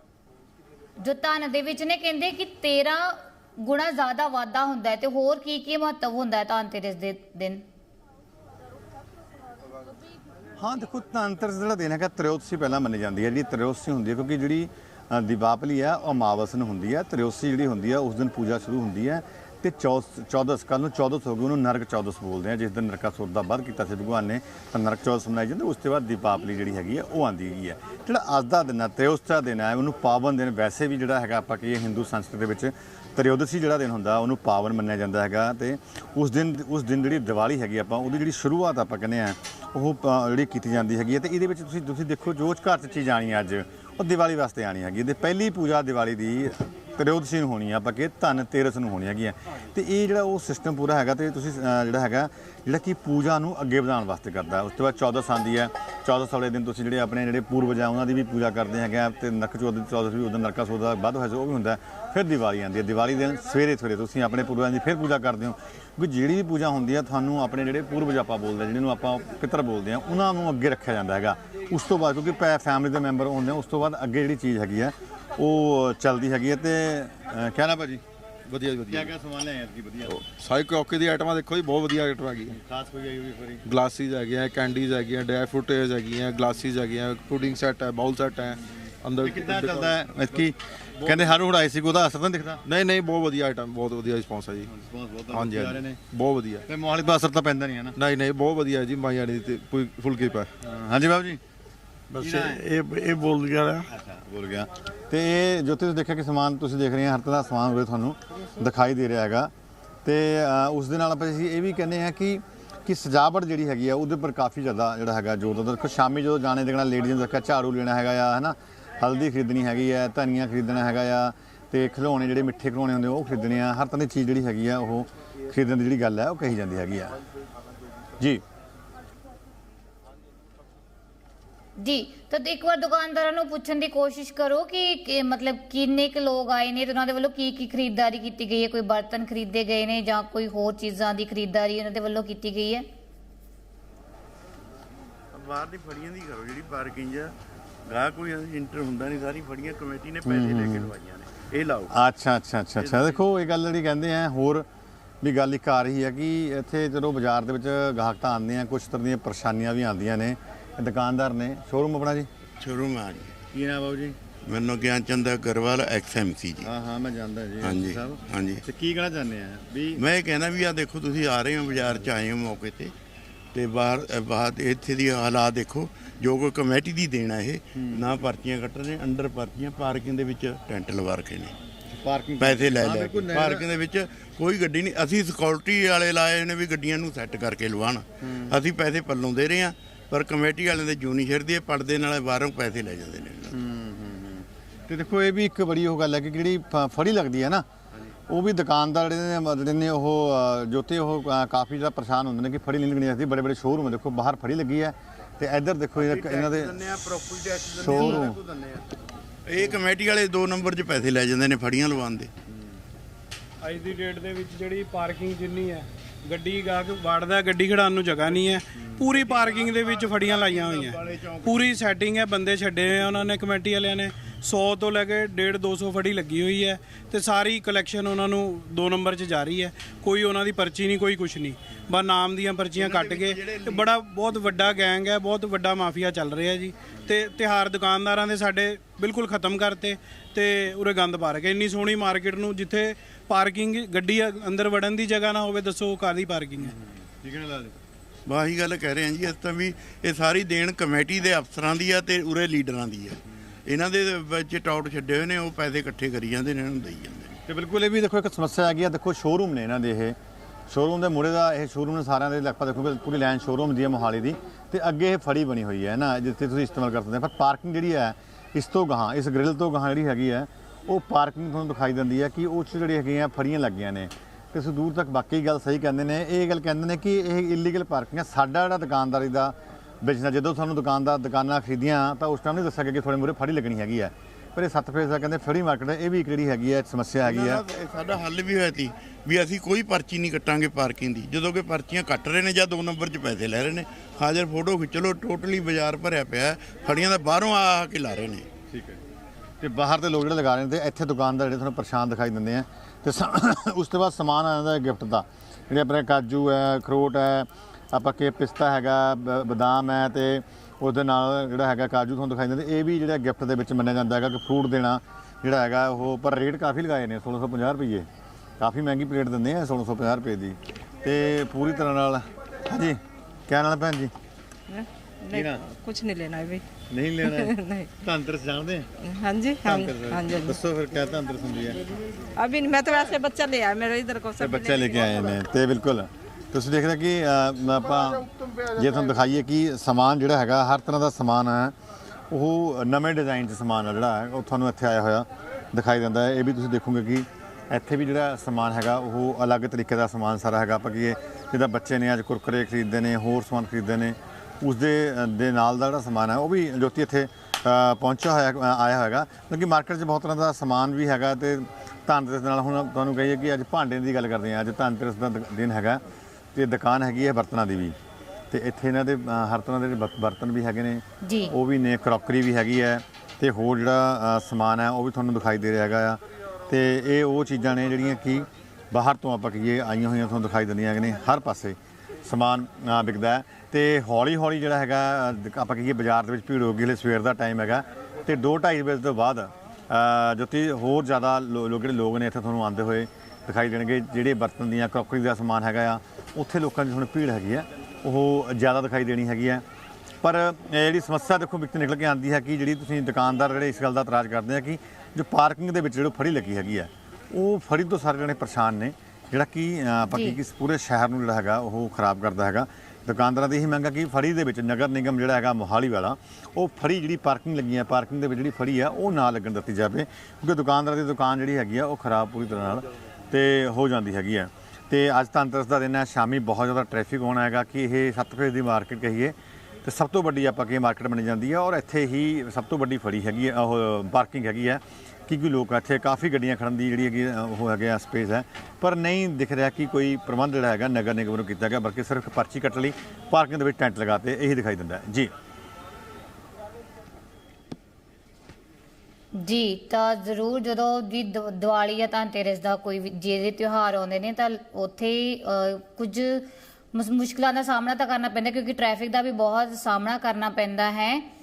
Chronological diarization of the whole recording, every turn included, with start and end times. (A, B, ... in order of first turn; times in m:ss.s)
0:01.0-0:07.6 A
0:10.6-1:18.0 B
1:18.5-1:19.1 C
1:18.9-1:20.2 B
1:20.1-1:22.6 C
1:22.5-1:23.6 B
1:23.6-1:30.0 C
1:29.2-1:32.6 B
1:31.0-1:31.3 C
1:32.6-1:34.7 C
1:34.6-1:36.0 B
1:35.3-1:36.6 C
1:36.7-1:38.0 B
1:38.0-1:40.5 C
1:40.6-1:41.4 B
1:42.2-1:42.6 B
1:42.2-1:43.9 D
1:43.9-1:49.5 B
1:50.0-2:07.2 B
2:11.8-2:22.9 A
2:25.3-2:27.3 D
2:27.8-2:31.9 D
2:30.2-2:30.9 B
2:31.9-2:34.7 B
2:32.8-2:33.2 D
2:35.2-2:42.3 B
2:42.6-2:43.4 D
2:43.5-2:44.2 B
2:44.4-2:46.7 D
2:46.6-2:50.0 B
2:47.6-2:48.6 D
2:50.0-2:52.9 D
2:53.5-3:01.5 D
2:57.7-2:58.0 B
3:01.9-3:03.6 B
3:02.4-3:13.6 D
3:08.2-3:08.5 B
3:13.5-3:17.6 B
3:18.3-3:26.8 B
3:26.0-3:28.8 D
3:27.6-3:28.4 B
3:29.4-3:32.3 D
3:33.6-4:06.7 E
3:39.1-3:41.8 D
3:52.7-3:53.9 D
4:06.6-4:07.8 B
4:08.2-4:17.4 D
4:17.5-4:20.2 B
4:20.7-4:47.6 B
4:47.2-4:58.5 D
4:58.7-4:59.0 B
4:59.6-5:18.1 B
5:18.6-5:24.1 B
5:24.7-5:26.6 F
5:25.3-5:25.6 B
5:26.9-5:28.9 B
5:27.2-5:27.9 F
5:29.0-5:30.6 F
5:29.6-5:31.8 B
5:32.4-5:35.4 F
5:34.4-5:41.7 B
5:42.3-6:06.0 B
6:06.5-6:08.0 B
6:08.5-6:39.6 B
6:11.2-6:11.5 A
6:40.2-7:25.3 B
7:29.3-7:41.3 A